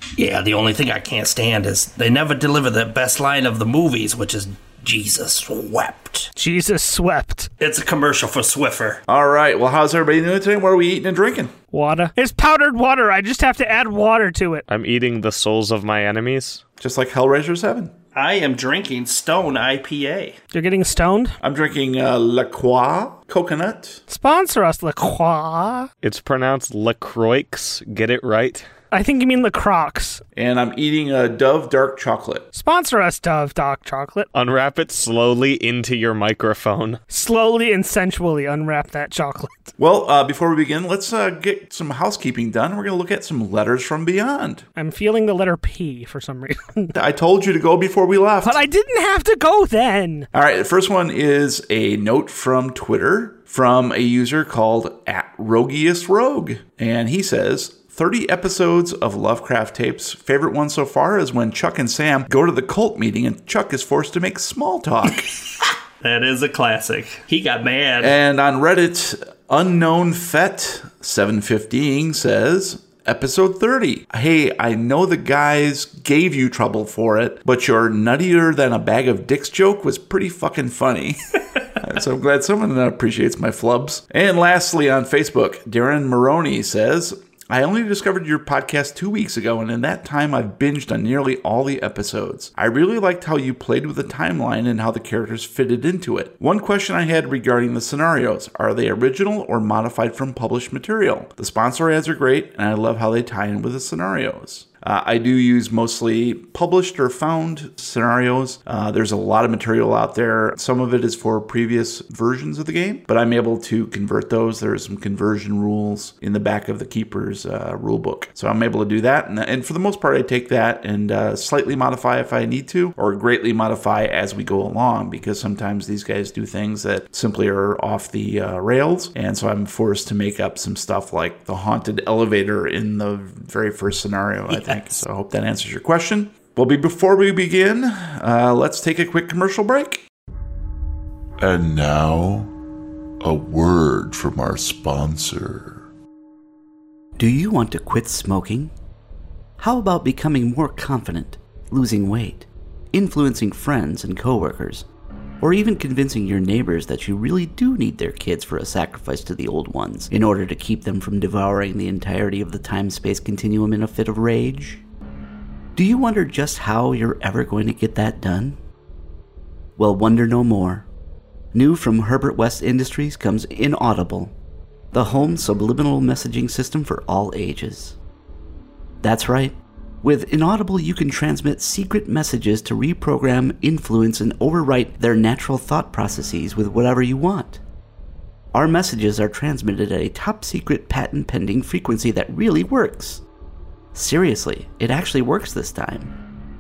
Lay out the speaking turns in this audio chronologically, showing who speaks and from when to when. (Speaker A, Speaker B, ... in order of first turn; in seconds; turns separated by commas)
Speaker A: 0.2-6.3, Speaker B: 6.3-7.5, Speaker A: 7.6-9.0, Speaker C: 9.1-11.5, Speaker B: 11.7-14.7, Speaker D: 14.7-16.6, Speaker C: 16.8-17.9, Speaker A: 18.1-20.4, Speaker B: 20.5-21.4, Speaker C: 21.4-24.0, Speaker B: 24.1-25.9, Speaker D: 26.0-28.7, Speaker B: 28.9-30.2, Speaker C: 30.4-32.5, Speaker B: 32.5-34.3, Speaker D: 34.3-37.0, Speaker B: 37.1-39.7, Speaker C: 39.8-44.7, Speaker B: 44.8-47.0, Speaker C: 46.9-48.6, Speaker B: 48.4-50.3, Speaker C: 50.3-65.3, Speaker A: 66.0-68.2, Speaker C: 68.0-140.0, Speaker A: 134.5-135.0, Speaker E: 141.4-142.5, Speaker E: 143.2-145.9, Speaker F: 147.2-148.7, Speaker F: 149.6-154.9, Speaker F: 155.4-164.8, Speaker F: 165.8-168.6, Speaker F: 169.8-170.9, Speaker F: 171.5-174.3, Speaker F: 174.9-178.0, Speaker F: 179.0-187.6, Speaker F: 188.5-193.2, Speaker F: 193.9-196.2